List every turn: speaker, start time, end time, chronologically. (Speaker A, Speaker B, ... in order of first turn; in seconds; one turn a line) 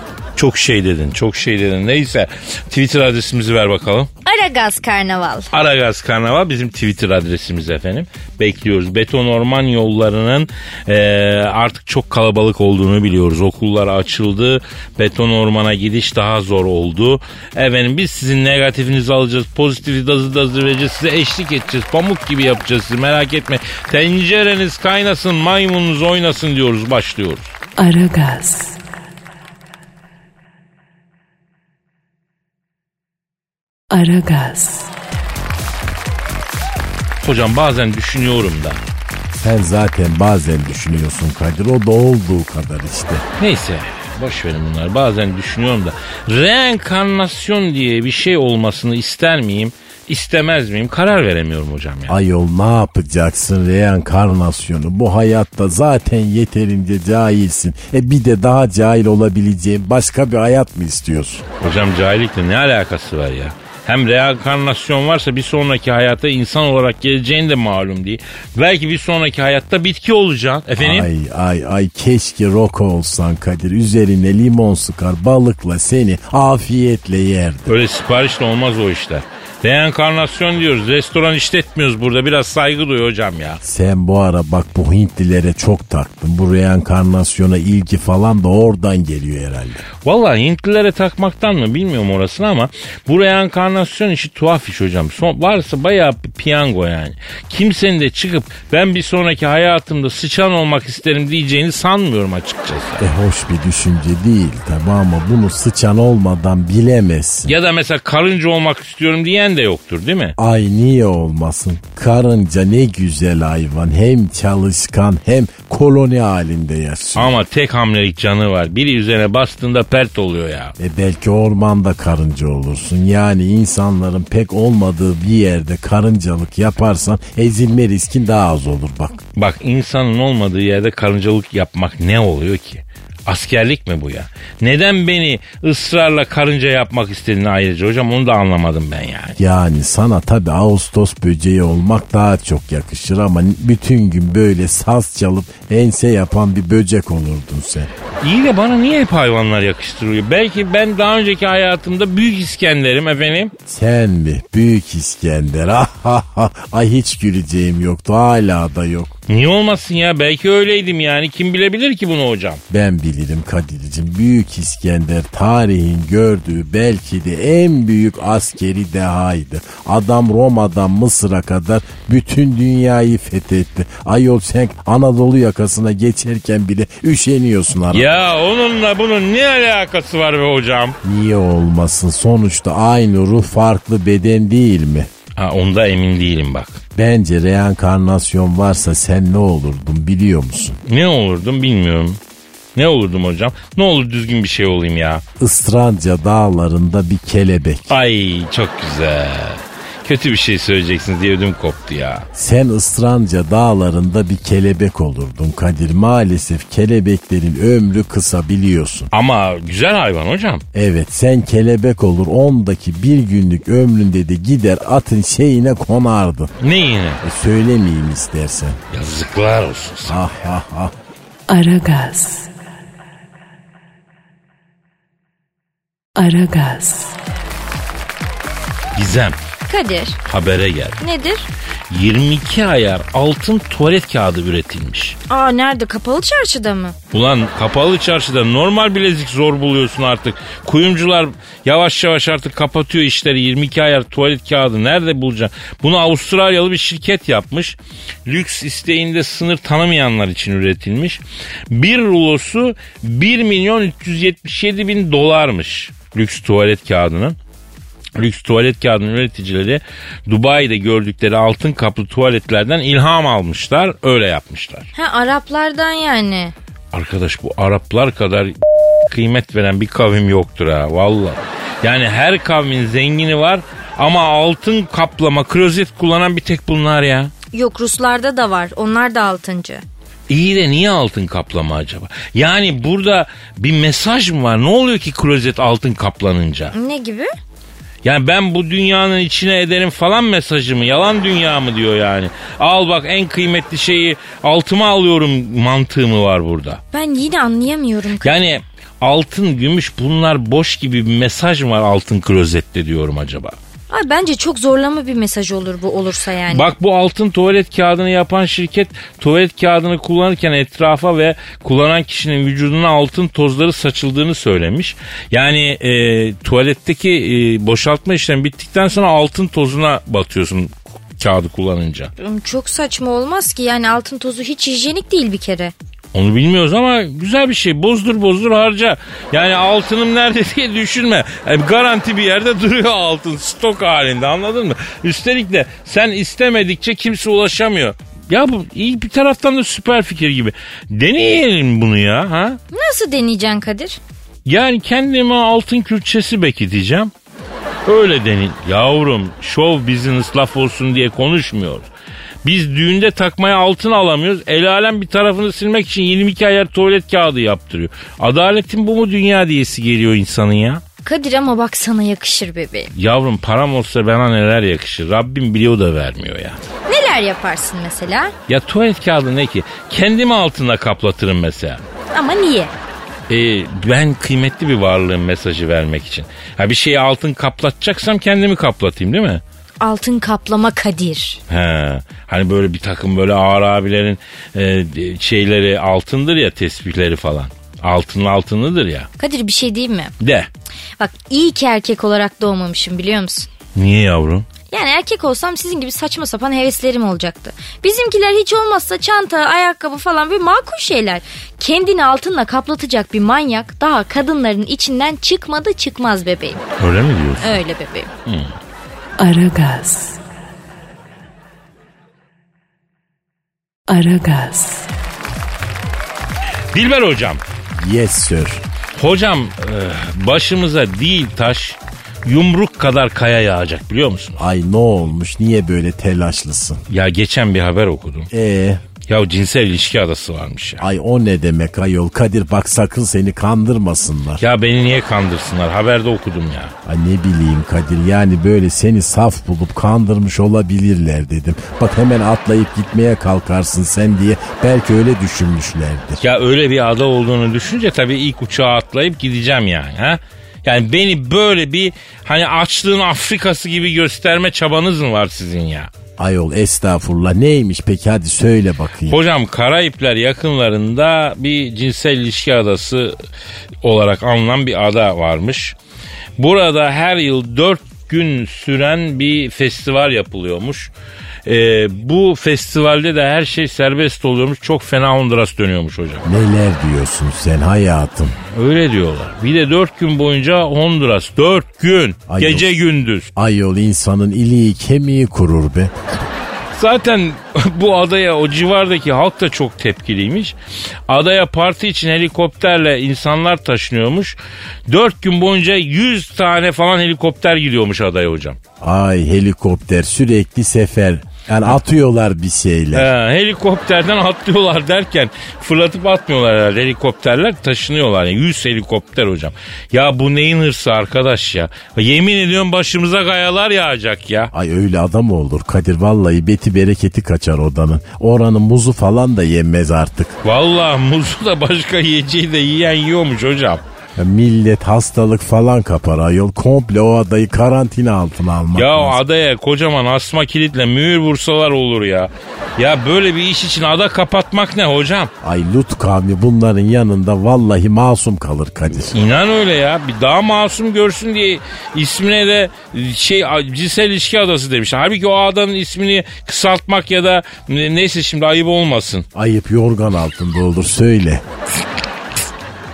Speaker A: 0.3-4.1
Speaker B: 4.2-5.5
Speaker A: 5.5-27.5
Speaker C: 27.8-28.8
Speaker C: 33.9-34.9
Speaker A: 37.2-38.8
Speaker D: 39.4-43.2
Speaker A: 43.4-52.1
Speaker D: 52.1-61.4
Speaker A: 61.6-71.1
Speaker D: 70.8-77.7
Speaker A: 77.7-83.6
Speaker D: 83.6-89.8
Speaker A: 90.0-103.0
Speaker D: 103.0-107.5
Speaker A: 107.5-110.3
Speaker D: 110.4-117.3
Speaker A: 117.2-120.7
Speaker D: 120.8-129.2
Speaker A: 129.4-139.4
Speaker D: 139.4-147.9
Speaker A: 148.2-153.5
Speaker D: 153.7-159.1
Speaker A: 159.3-162.6
Speaker D: 162.7-178.1
Speaker A: 177.9-181.0
Speaker D: 181.0-185.1
Speaker A: 185.4-186.8
Speaker D: 186.9-190.8
Speaker A: 190.8-192.2
Speaker A: 192.8-195.2
Speaker D: 195.4-197.9
Speaker A: 197.9-202.3
Speaker D: 202.3-209.1
Speaker A: 209.1-210.6
Speaker D: 210.7-216.5
Speaker A: 216.6-217.2
Speaker D: 217.2-218.8
Speaker A: 218.9-220.2
Speaker D: 220.1-220.9
Speaker C: 221.5-222.5
Speaker C: 226.2-227.2
Speaker A: 228.9-229.4
Speaker B: 229.7-230.2
Speaker A: 230.2-231.0
Speaker B: 231.0-231.5
Speaker A: 231.9-235.2
Speaker B: 235.3-236.9
Speaker A: 237.1-257.4
Speaker A: 258.1-264.9
Speaker B: 264.9-266.5
Speaker A: 266.9-268.6
Speaker A: 269.1-277.3
Speaker B: 277.5-279.8
Speaker A: 280.3-286.7
Speaker B: 286.7-287.3
Speaker A: 288.0-296.8
Speaker B: 296.9-298.4
Speaker A: 298.2-303.5
Speaker B: 303.9-306.7
Speaker A: 306.5-322.1
Speaker B: 322.2-325.7
Speaker A: 326.1-342.6
Speaker B: 342.7-344.0
Speaker A: 344.4-347.1
Speaker A: 347.9-351.9
Speaker A: 352.4-360.8
Speaker B: 361.0-362.9
Speaker A: 362.9-366.6
Speaker B: 366.9-368.3
Speaker A: 368.5-371.8
Speaker B: 372.1-372.8
Speaker A: 373.3-379.4
Speaker B: 379.8-381.4
Speaker A: 381.5-389.1
Speaker B: 389.2-390.1
Speaker A: 390.2-390.5
Speaker B: 391.0-393.5
Speaker A: 393.8-394.5
Speaker B: 394.6-406.6
Speaker A: 406.8-407.6
Speaker B: 407.4-408.1
Speaker A: 408.2-408.5
Speaker C: 409.2-410.2
Speaker C: 413.9-414.9
Speaker A: 416.7-417.4
Speaker D: 417.8-418.6
Speaker A: 419.0-424.4
Speaker D: 424.4-426.8
Speaker A: 426.9-428.3
Speaker D: 428.3-428.8
Speaker A: 429.1-430.9
Speaker D: 430.8-434.4
Speaker A: 434.4-436.7
Speaker D: 436.9-446.2
Speaker A: 446.2-455.9
Speaker D: 456.2-459.2
Speaker A: 459.1-463.2
Speaker A: 463.8-465.8
Speaker A: 466.4-470.9
Speaker A: 471.5-476.2
Speaker D: 476.2-478.4
Speaker A: 478.4-483.3
Speaker D: 482.3-482.7
Speaker D: 483.4-485.9
Speaker A: 486.7-490.5
Speaker A: 491.1-494.4
Speaker A: 494.9-498.6
Speaker D: 498.8-503.1
Speaker A: 502.9-514.5
Speaker D: 514.5-520.4
Speaker A: 520.4-523.8
Speaker D: 524.2-529.2
Speaker A: 528.8-535.3
Speaker D: 535.4-539.3
Speaker A: 539.1-549.2
Speaker D: 549.4-551.4